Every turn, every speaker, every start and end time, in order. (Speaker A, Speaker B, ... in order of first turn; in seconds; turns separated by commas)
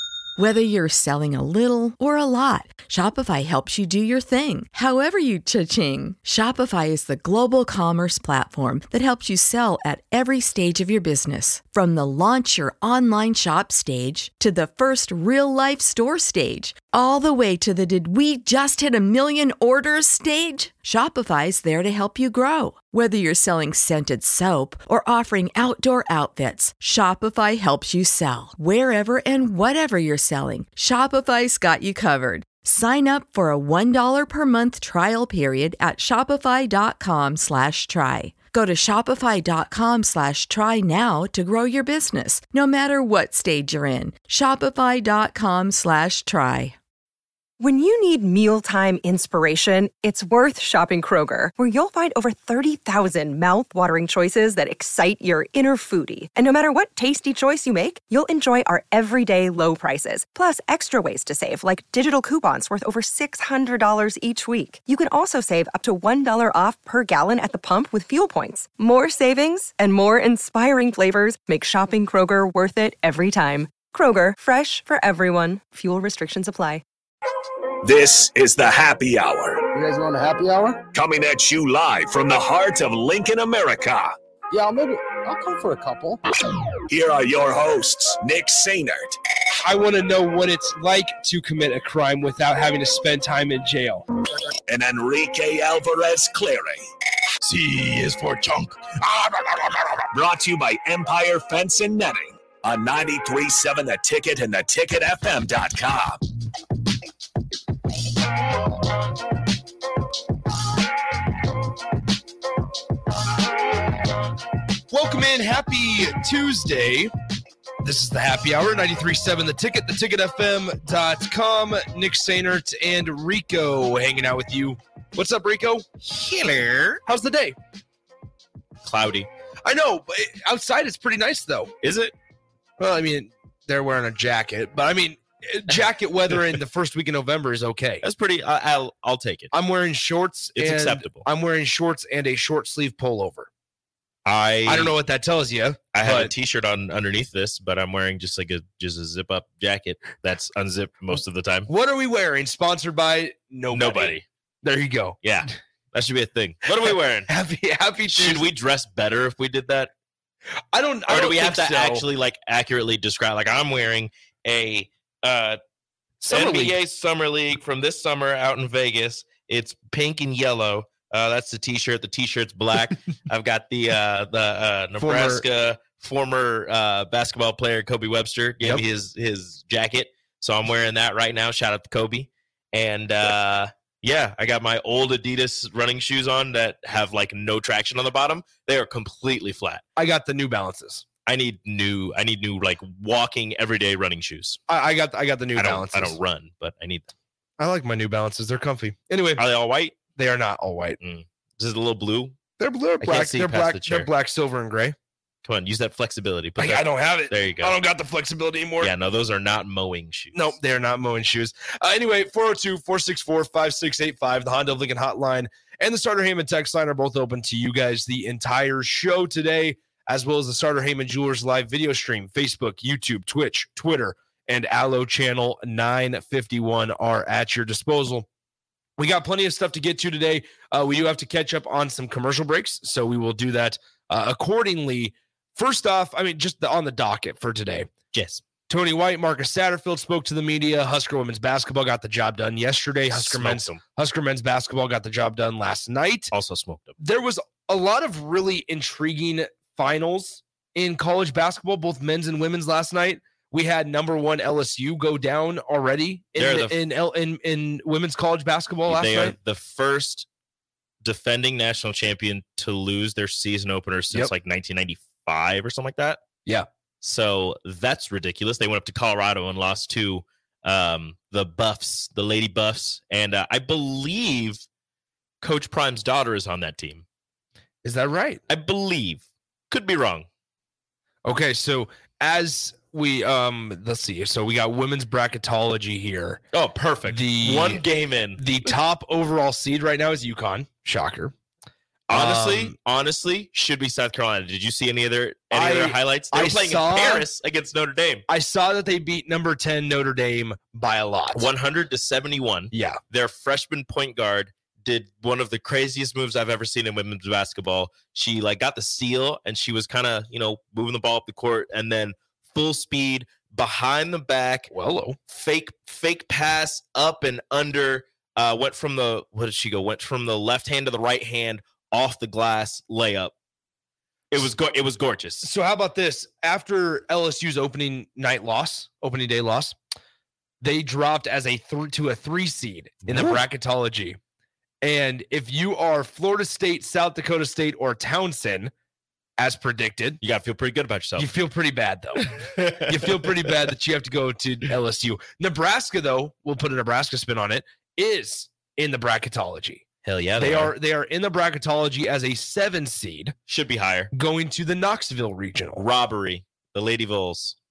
Speaker A: 0.4-46.7, Speaker B: 47.6-76.8, Speaker C: 77.8-79.6, Speaker D: 79.7-80.8, Speaker C: 80.9-84.1, Speaker D: 84.5-86.2, Speaker C: 86.9-89.2, Speaker E: 89.6-94.0, Speaker C: 94.7-96.8, Speaker F: 97.5-98.7, Speaker C: 100.1-106.2, Speaker E: 114.9-117.1, Speaker E: 117.8-125.9, Speaker F: 126.0-127.0, Speaker E: 127.0-127.5, Speaker F: 128.8-129.3, Speaker E: 129.6-131.7, Speaker F: 131.8-132.1, Speaker E: 132.8-138.0, Speaker F: 138.0-139.5, Speaker E: 139.5-143.5, Speaker F: 140.6-141.2, Speaker F: 144.2-144.9, Speaker E: 144.7-146.3, Speaker F: 145.9-151.7, Speaker E: 151.7-155.5, Speaker F: 153.7-154.2, Speaker F: 155.2-157.3, Speaker E: 156.7-158.5, Speaker F: 158.1-159.9, Speaker E: 160.7-162.0, Speaker F: 161.1-165.6, Speaker E: 166.2-166.8, Speaker F: 166.3-189.8, Speaker E: 175.0-175.4, Speaker E: 189.9-191.1, Speaker F: 191.2-194.6, Speaker E: 194.7-196.2, Speaker F: 195.6-197.1, Speaker E: 197.6-199.4, Speaker F: 199.4-200.0, Speaker E: 200.1-201.0, Speaker F: 201.0-202.4, Speaker E: 202.6-204.9, Speaker F: 203.0-204.1, Speaker F: 205.4-207.8, Speaker E: 206.6-208.9, Speaker F: 208.8-210.6, Speaker E: 210.3-228.2, Speaker E: 229.0-237.9, Speaker F: 238.1-238.4, Speaker E: 238.7-246.3, Speaker F: 243.1-243.8, Speaker F: 246.3-246.9, Speaker E: 247.0-259.4, Speaker F: 256.4-256.8, Speaker F: 258.9-260.3, Speaker F: 261.0-266.2, Speaker F: 267.0-274.6, Speaker F: 275.4-277.0, Speaker E: 277.8-278.4, Speaker F: 278.5-280.3, Speaker E: 281.2-286.4, Speaker F: 286.5-288.4, Speaker E: 287.1-287.8, Speaker E: 288.4-291.3, Speaker E: 292.1-292.7, Speaker F: 292.1-298.2, Speaker E: 295.5-297.3, Speaker E: 298.3-301.4, Speaker F: 301.3-314.7, Speaker E: 302.7-303.0, Speaker E: 314.7-315.2, Speaker F: 315.3-323.3, Speaker F: 324.3-325.5, Speaker E: 325.4-329.8, Speaker E: 330.6-334.2, Speaker F: 333.1-333.4, Speaker E: 334.8-338.7, Speaker E: 339.4-340.2, Speaker F: 340.2-341.3, Speaker E: 341.2-349.9, Speaker F: 342.2-343.5, Speaker F: 350.0-350.8, Speaker E: 350.4-353.4, Speaker F: 353.5-354.1, Speaker E: 354.1-355.8, Speaker F: 355.8-357.6